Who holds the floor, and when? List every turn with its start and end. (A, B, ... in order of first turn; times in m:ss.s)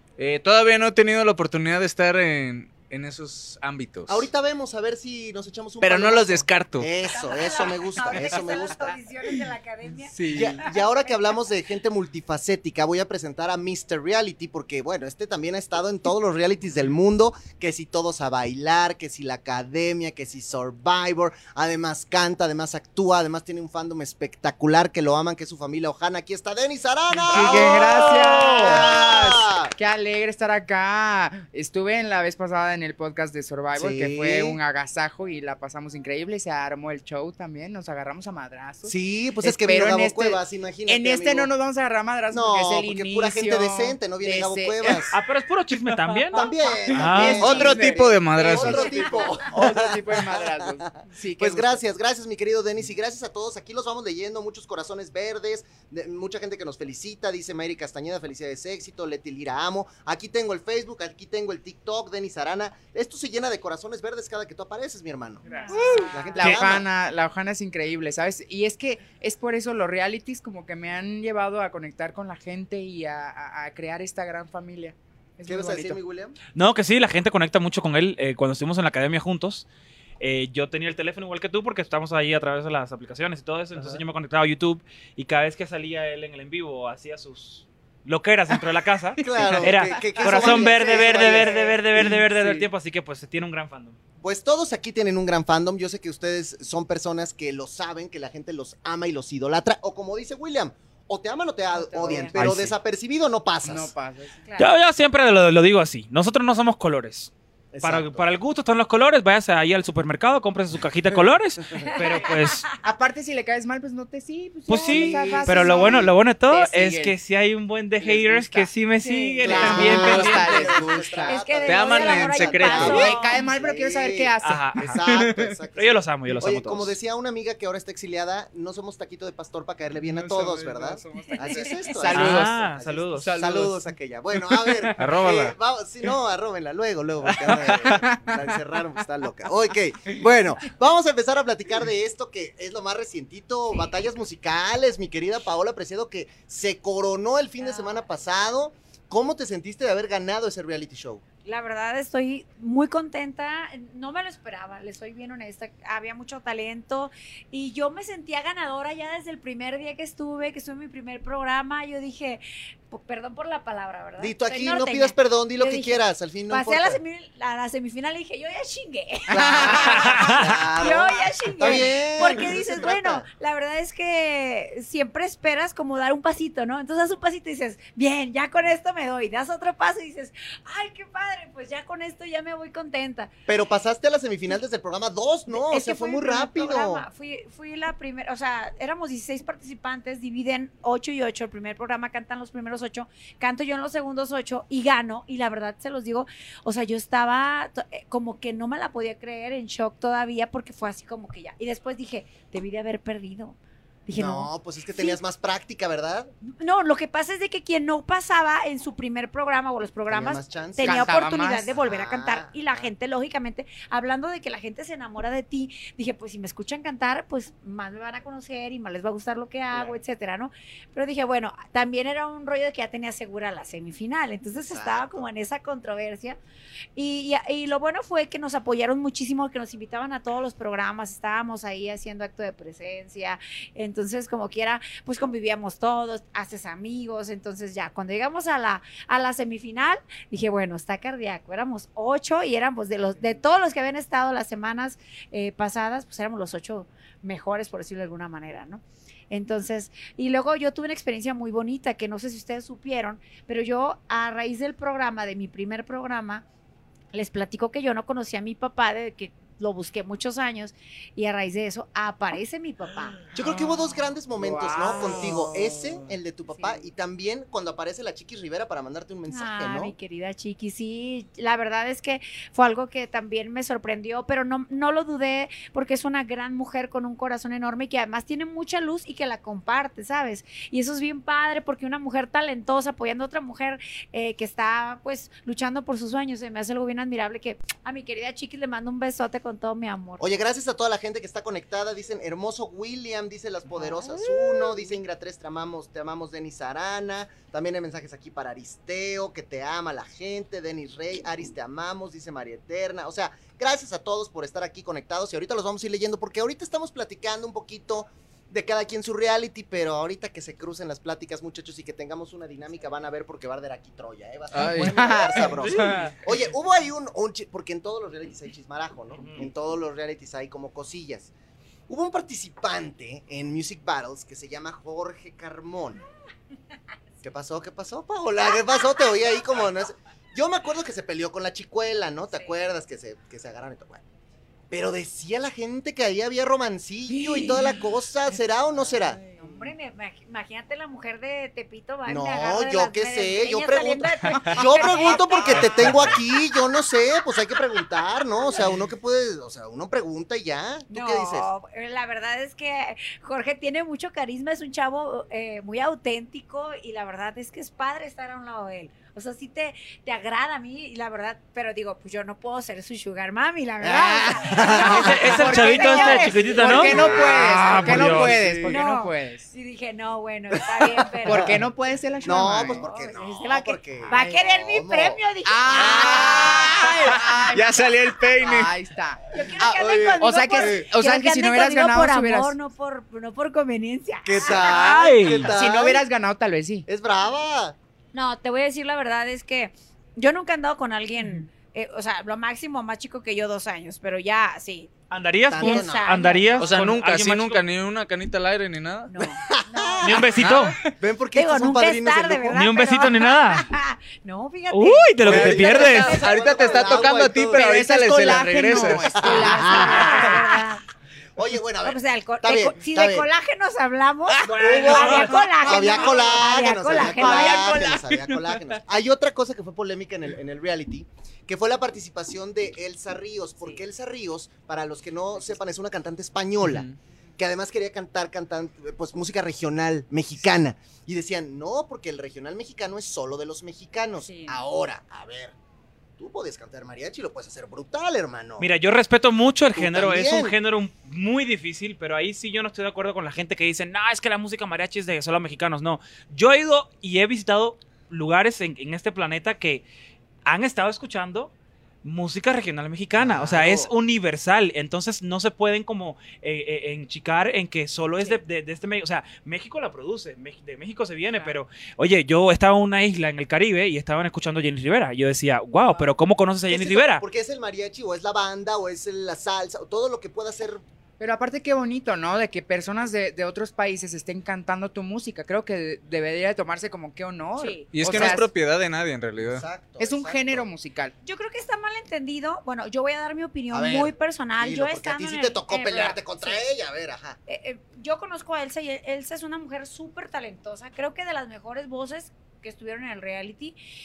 0:00.2-0:04.3 A
0:04.1-0:09.0 B
0:05.8-0:06.9 A
0:07.0-0:11.2 C
0:10.2-0:10.5 A
0:10.2-0:10.5 D
0:10.3-0:29.7 B
0:27.2-0:27.8 E
0:27.3-0:45.1 D
0:33.8-0:34.6 B
0:38.9-0:41.5 B
0:42.3-0:45.1 B
0:45.1-0:47.5 E
0:46.3-1:06.9 B
0:46.9-0:51.8 D
0:47.1-0:49.0 A
1:05.5-1:05.8 E
1:05.5-1:06.5 C
1:05.7-1:16.0 D
1:15.5-1:16.4 B
1:16.6-1:19.7 E
1:20.2-1:34.0 E
1:29.2-1:32.6 B
1:29.4-1:31.4 D
1:34.2-1:43.9 B
1:41.9-1:42.4 D
1:41.9-1:42.4 C
1:42.4-1:42.7 E
1:43.6-1:44.4 D
1:44.4-1:44.7 C
1:44.6-1:47.3 E
1:47.7-1:48.3 B
1:47.8-1:52.7 E
1:51.8-1:52.8 C
1:52.8-1:57.2 D
1:54.7-2:00.7 E
1:54.8-1:56.1 B
1:58.1-1:58.7 D
1:59.0-2:00.0 C
1:59.4-2:31.2 B
1:59.4-2:01.4 D
2:01.3-2:03.3 C
2:01.6-2:03.1 A
2:02.7-2:04.7 D
2:04.4-2:05.0 E
2:05.0-2:05.4 A
2:05.8-2:06.9 E
2:10.0-2:11.4 A
2:11.4-2:11.9 C
2:11.9-2:12.6 D
2:12.1-2:13.3 E
2:13.3-2:13.7 A
2:13.3-2:13.8 D
2:14.9-2:15.6 A
2:17.3-2:18.0 A
2:17.7-2:18.4 D
2:27.6-2:28.1 C
2:31.4-2:46.0 C
2:44.2-2:47.0 B
2:46.5-3:03.3 C
2:49.3-2:53.3 B
2:49.3-2:50.0 D
2:49.9-2:50.6 E
3:03.5-3:07.1 B
3:05.5-3:25.2 C
3:24.2-3:26.3 B
3:26.4-3:46.4 C
3:30.1-3:32.9 B
3:30.8-3:31.7 D
3:39.7-3:40.0 B
3:44.7-3:45.3 B
3:47.0-4:16.4 C
4:17.1-4:23.2 C
4:23.3-4:29.9 B
4:24.4-4:25.7 D
4:26.5-4:26.8 C
4:29.3-4:50.3 C
4:50.2-5:21.3 B
4:53.9-4:54.8 C
5:14.5-5:16.0 A
5:14.8-5:15.5 D
5:15.6-5:16.2 E
5:21.9-5:26.0 B
5:27.2-5:34.0 B
5:34.7-5:39.2 B
5:39.3-5:46.2 C
5:42.1-5:51.5 B
5:50.9-6:07.4 C
6:03.8-6:05.6 B
6:04.7-6:08.4 E
6:05.3-6:09.5 D
6:06.6-6:08.6 B
6:07.6-6:08.7 A
6:08.7-6:11.5 C
6:11.2-6:12.9 D
6:12.2-6:17.2 C
6:12.2-6:15.2 B
6:14.1-6:14.4 D
6:15.4-6:17.8 D
6:15.7-6:16.8 B
6:16.9-6:18.7 A
6:18.4-6:22.6 D
6:19.3-6:25.5 C
6:19.6-6:20.9 B
6:24.2-6:26.0 B
6:24.5-6:25.5 E
6:25.5-6:26.9 D
6:26.9-6:27.8 B
6:28.1-6:34.9 C
6:35.1-6:37.6 E
6:35.5-6:36.4 B
6:35.6-6:36.8 C
6:36.6-6:39.1 A
6:39.1-6:40.0 C
6:39.2-6:42.6 B
6:39.7-6:40.2 D
6:40.0-6:40.9 E
6:40.4-6:40.8 A
6:41.4-6:47.1 C
6:42.5-6:43.7 E
6:44.7-6:46.2 E
6:45.2-6:47.8 B
6:45.3-6:49.1 A
6:47.5-6:50.3 D
6:49.1-6:50.8 C
6:49.1-6:50.6 B
6:51.4-6:53.3 B
6:51.8-6:58.0 C
6:54.4-6:55.5 E
6:54.4-7:06.9 B
6:55.7-6:56.1 D
6:56.9-6:58.3 D
7:06.6-7:07.0 A
7:07.4-7:15.5 B
7:14.2-7:14.6 C
7:16.2-7:18.7 B
7:18.6-7:29.8 E
7:19.8-7:20.6 B
7:30.4-7:31.5 E
7:32.0-7:47.2 E
7:33.2-7:33.9 B
7:33.3-7:33.8 A
7:41.3-7:41.6 C
7:46.7-7:50.8 B
7:51.2-7:58.5 D
7:57.6-7:57.9 C
7:57.9-7:59.6 A
7:59.4-8:00.7 B
8:00.0-8:01.1 D
8:01.2-8:06.6 C
8:03.7-8:07.4 B
8:07.5-8:13.8 C